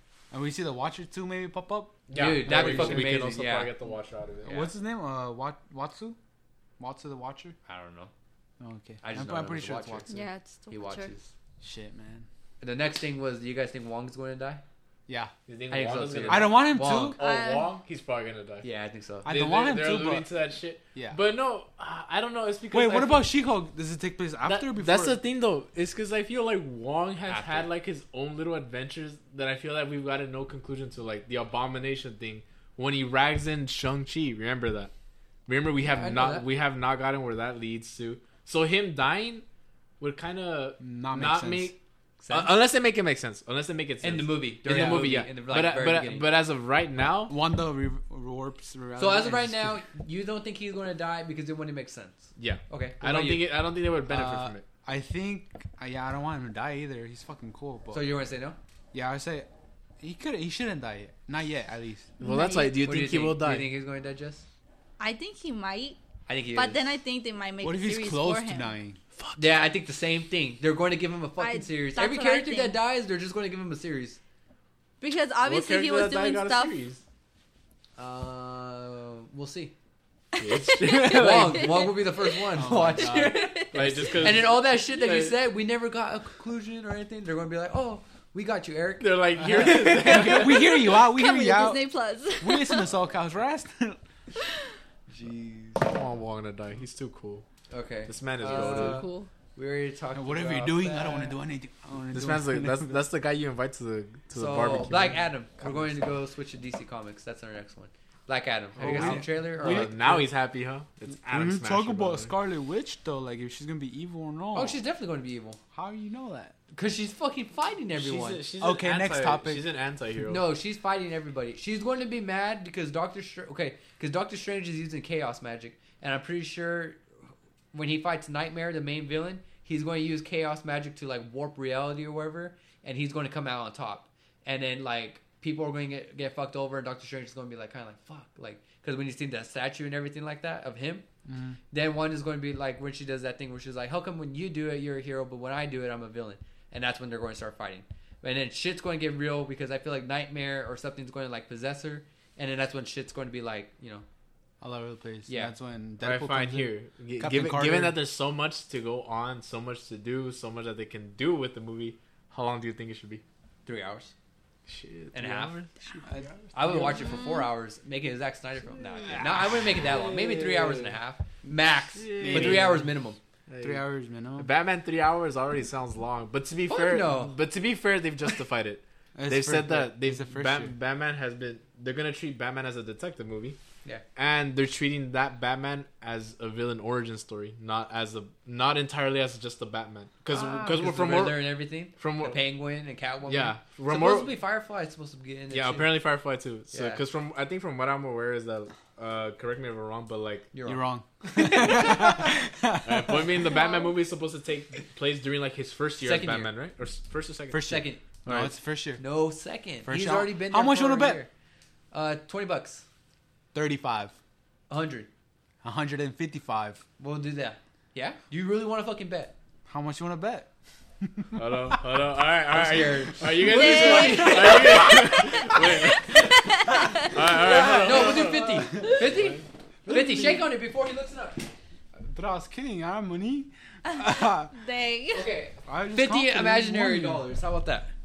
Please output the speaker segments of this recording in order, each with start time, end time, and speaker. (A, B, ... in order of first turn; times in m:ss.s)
0:00.3-0:03.2 A
0:02.1-0:04.7 B
0:02.1-0:03.7 C
0:04.5-0:06.2 A
0:06.8-0:07.6 A
0:07.7-0:08.1 C
0:08.6-0:10.2 A
0:09.0-0:11.3 C
0:10.1-0:11.1 D
0:11.6-0:12.3 A
0:12.6-0:14.6 C
0:15.1-0:15.3 A
0:15.5-0:18.7 B
0:15.7-0:17.2 C
0:16.3-0:17.2 A
0:17.2-0:17.8 D
0:18.6-0:19.3 C
0:19.2-0:20.3 A
0:19.3-0:23.3 B
0:22.7-0:25.2 A
0:24.4-0:34.9 B
0:27.3-0:27.7 C
0:35.5-0:39.4 B
0:35.8-0:36.4 C
0:40.0-0:41.8 B
0:40.8-0:41.7 A
0:42.2-0:42.5 C
0:42.3-0:47.3 B
0:44.0-0:46.3 C
0:44.7-0:45.0 A
0:47.3-0:49.8 A
0:49.0-0:53.5 C
0:52.4-0:54.6 B
0:54.1-0:58.1 A
0:57.9-0:58.6 C
0:58.9-0:59.5 A
1:00.0-1:02.1 A
1:02.2-1:02.8 D
1:02.2-1:03.7 B
1:02.8-1:04.4 C
1:05.0-1:06.0 D
1:06.3-1:06.9 C
1:06.6-1:08.7 D
1:07.6-1:09.0 A
1:09.2-1:09.6 B
1:09.4-1:14.2 C
1:11.4-1:12.8 D
1:15.0-1:16.7 D
1:15.4-1:17.0 B
1:18.0-1:19.7 C
1:20.4-1:24.1 D
1:20.4-1:21.9 B
1:21.0-1:30.3 C
1:22.6-1:24.4 A
1:23.7-1:25.4 B
1:29.0-1:30.7 B
1:29.4-1:31.8 A
1:30.2-1:33.0 D
1:32.4-1:34.0 A
1:35.1-1:35.8 C
1:35.8-1:37.4 B
1:37.7-1:41.4 C
1:38.1-1:39.0 B
1:38.4-1:39.3 D
1:40.1-1:43.0 A
1:42.1-1:45.9 B
1:44.3-1:50.0 C
1:48.8-1:50.3 A
1:48.8-1:52.3 B
1:51.3-1:54.8 A
1:54.5-1:55.6 C
1:55.7-1:56.5 A
1:56.7-1:58.4 C
1:58.0-2:00.4 B
1:58.6-1:59.6 A
2:00.2-2:07.0 C
2:07.7-2:21.1 C
2:21.3-2:21.6 A
2:21.7-2:34.0 C
2:34.6-2:38.0 A
2:35.3-2:35.5 C
2:36.0-2:43.2 B
2:43.7-2:44.1 C
2:44.7-2:46.2 B
2:45.1-2:45.6 C
2:46.0-2:47.0 A
2:46.5-2:53.2 C
2:47.0-2:47.4 D
2:48.8-2:51.0 B
2:52.0-2:52.9 B
2:52.2-2:52.9 A
2:53.5-2:53.8 B
2:53.6-2:54.5 A
2:54.4-3:03.6 B
2:56.7-2:57.4 C
2:59.2-3:00.7 A
3:04.2-3:12.4 B
3:10.3-3:16.0 C
3:13.3-3:14.3 B
3:15.5-3:20.5 B
3:16.7-3:17.0 C
3:20.5-3:20.8 C
3:20.7-3:23.5 A
3:21.4-3:22.2 B
3:22.8-3:28.5 B
3:23.4-3:23.9 D
3:26.0-3:26.5 C
3:27.5-3:29.0 A
3:27.6-3:28.0 C
3:29.0-3:31.3 C
3:29.8-3:31.2 A
3:31.9-3:32.8 C
3:33.5-3:34.1 A
3:34.7-3:35.1 C
3:35.6-3:36.8 A
3:37.0-3:39.3 C
3:39.7-3:40.5 A
3:41.0-3:41.3 A
3:41.3-3:49.4 B
3:42.5-3:46.2 C
3:43.5-3:44.8 D
3:46.3-3:47.0 D
3:47.3-3:48.9 A
3:47.4-3:51.5 C
3:49.8-3:50.5 A
3:52.0-3:54.6 A
3:53.9-3:55.3 D
3:55.1-3:57.9 C
3:55.7-3:57.3 A